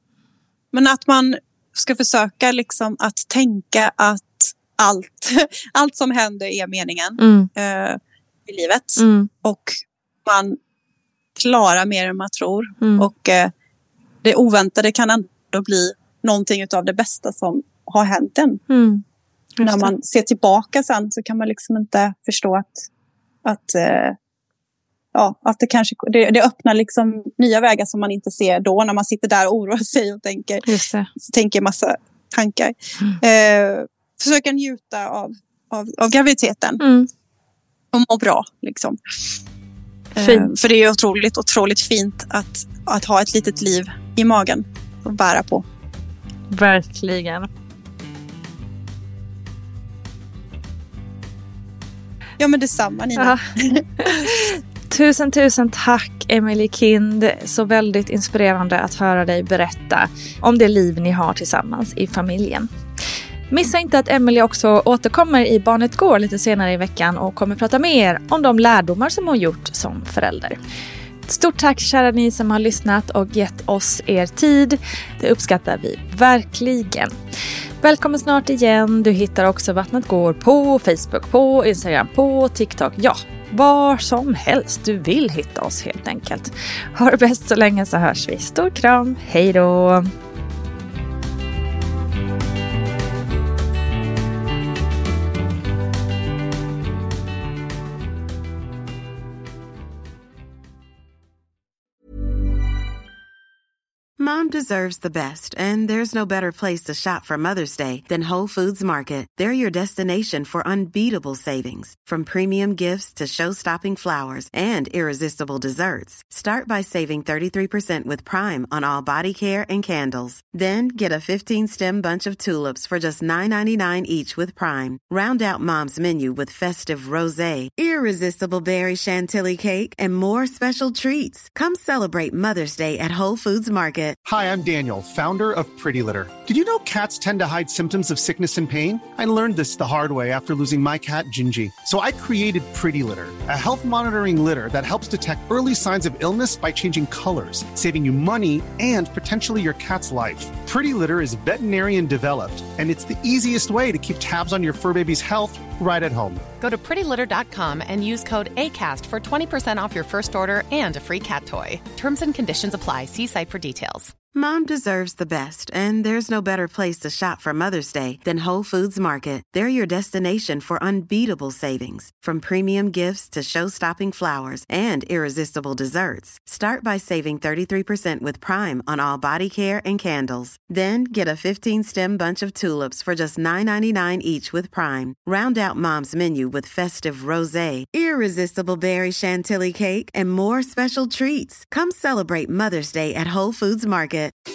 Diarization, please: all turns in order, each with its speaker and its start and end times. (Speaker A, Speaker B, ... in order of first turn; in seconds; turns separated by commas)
Speaker A: 0.7-10.6, Speaker B: 7.2-7.5, Speaker B: 9.0-9.3, Speaker A: 11.3-13.5, Speaker B: 12.8-13.1, Speaker A: 14.2-18.6, Speaker B: 18.7-19.0, Speaker B: 19.6-19.9, Speaker A: 19.6-22.9, Speaker A: 23.4-24.1, Speaker A: 25.1-36.8, Speaker B: 30.6-31.1, Speaker B: 36.8-37.1, Speaker A: 37.9-39.0, Speaker A: 40.1-45.6, Speaker B: 40.2-40.5, Speaker B: 46.5-47.5, Speaker A: 52.4-54.4, Speaker B: 53.2-53.5, Speaker B: 54.0-62.7, Speaker B: 63.5-70.6, Speaker B: 71.2-77.1, Speaker B: 77.8-90.1, Speaker C: 104.2-134.2, Speaker D: 134.2-156.4, Speaker E: 156.6-164.2, Speaker C: 164.3-194.3